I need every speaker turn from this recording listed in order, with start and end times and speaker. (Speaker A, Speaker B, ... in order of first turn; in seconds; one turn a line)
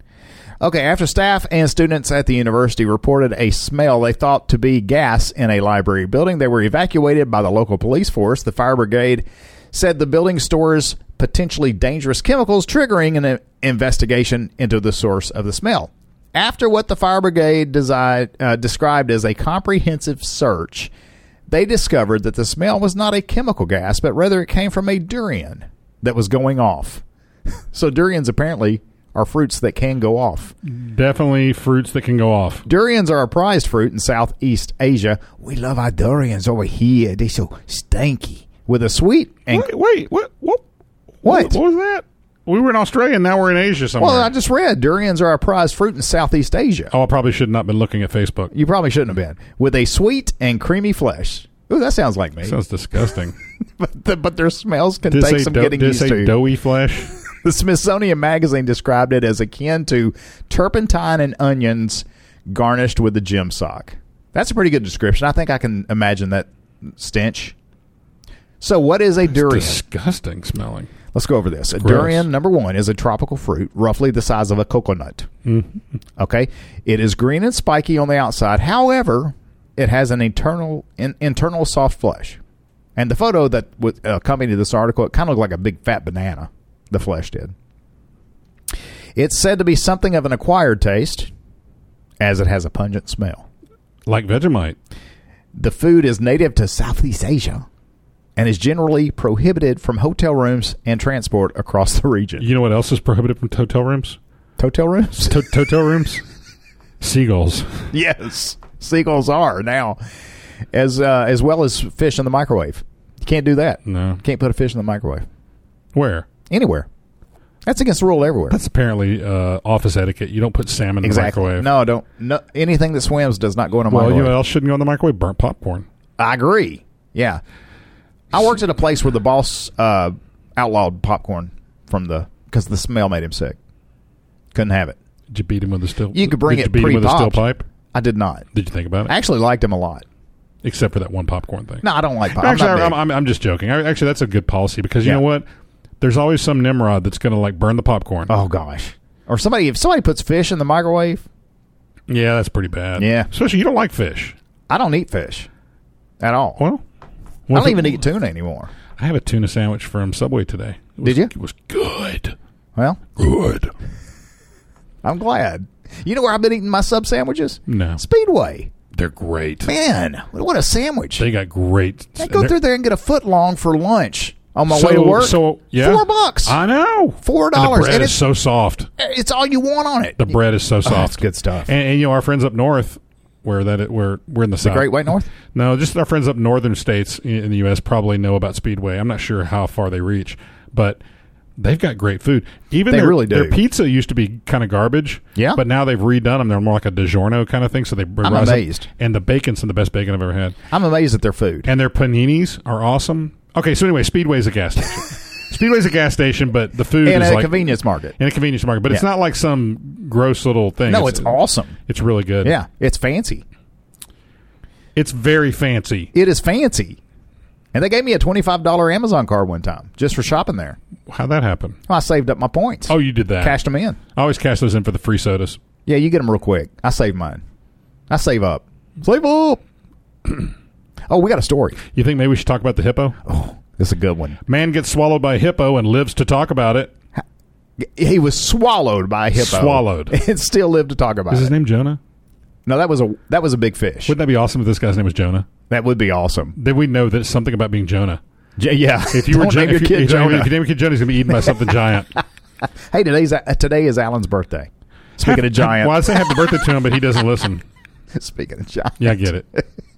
Speaker A: 0.6-20.9
Speaker A: 21.5-27.0
Speaker A: 27.7-30.5
Speaker B: 30.6-32.6
Speaker A: 32.7-39.7
Speaker B: 39.5-40.6
Speaker B: 41.2-44.3
Speaker A: 41.2-41.6
Speaker A: 44.0-46.9
Speaker B: 46.9-48.5
Speaker A: 48.5-52.6
Speaker B: 52.4-53.4
Speaker A: 53.8-56.4
Speaker B: 55.1-57.1
Speaker A: 57.3-67.5
Speaker A: 68.6-69.8
Speaker B: 69.3-70.9
Speaker A: 71.1-75.3
Speaker B: 71.8-72.3
Speaker B: 75.5-75.8
Speaker A: 76.2-82.4
Speaker A: 83.0-87.5
Speaker A: 89.2-91.3
Speaker A: 92.2-93.5
Speaker B: 94.1-94.8
Speaker A: 95.5-97.7
Speaker A: 98.4-102.5
Speaker B: 102.4-104.2
Speaker A: 104.6-105.5
Speaker B: 105.3-106.2
Speaker B: 107.0-107.9
Speaker A: 107.9-110.0
Speaker A: 110.7-115.2
Speaker B: 113.9-114.2
Speaker B: 115.9-116.3
Speaker A: 116.5-116.9
Speaker A: 117.7-118.6
Speaker B: 118.5-121.7
Speaker A: 121.0-124.4
Speaker B: 123.9-125.9
Speaker A: 126.2-127.4
Speaker A: 128.3-133.6
Speaker A: 134.5-135.0
Speaker B: 135.3-137.7
Speaker A: 136.1-138.5
Speaker B: 138.5-139.1
Speaker A: 139.1-140.1
Speaker B: 140.6-145.5
Speaker A: 141.8-143.0
Speaker B: 146.0-148.3
Speaker A: 148.3-151.2
Speaker B: 152.1-154.4
Speaker A: 153.0-153.3
Speaker A: 154.7-155.5
Speaker A: 156.2-156.6
Speaker B: 156.6-156.8
Speaker B: 157.5-158.0
Speaker A: 157.5-158.7
Speaker B: 159.0-162.4
Speaker A: 161.0-161.3
Speaker A: 162.8-163.0
Speaker B: 163.2-163.7
Speaker A: 165.0-168.7
Speaker B: 167.7-168.0
Speaker B: 168.9-169.7
Speaker A: 169.7-171.3
Speaker B: 171.2-172.6
Speaker A: 172.2-176.6
Speaker B: 174.7-178.9
Speaker A: 177.2-178.2
Speaker A: 179.0-181.7
Speaker B: 180.2-191.0
Speaker A: 184.6-185.3
Speaker B: 191.6-200.6
Speaker A: 192.9-193.6
Speaker A: 195.3-195.6
Speaker A: 198.2-198.9
Speaker A: 200.7-201.7
Speaker B: 201.7-212.6
Speaker A: 207.0-208.1
Speaker A: 210.9-211.8
Speaker A: 212.4-213.4
Speaker B: 215.0-216.1
Speaker A: 216.1-217.0
Speaker A: 217.7-220.8
Speaker B: 221.1-221.8
Speaker A: 221.9-224.0
Speaker B: 222.9-223.6
Speaker B: 224.2-225.6
Speaker A: 225.9-227.4
Speaker A: 228.1-229.6
Speaker A: 231.1-231.8
Speaker B: 231.9-233.2
Speaker A: 233.3-234.4
Speaker B: 234.5-236.9
Speaker A: 237.8-241.5
Speaker B: 239.3-240.2
Speaker B: 241.3-242.0
Speaker A: 242.7-244.2
Speaker B: 244.1-245.5
Speaker A: 245.7-246.6
Speaker B: 246.6-248.2
Speaker A: 248.6-250.5
Speaker B: 249.1-252.2
Speaker A: 252.9-256.1
Speaker B: 255.2-257.6
Speaker A: 258.1-259.7
Speaker B: 259.0-259.5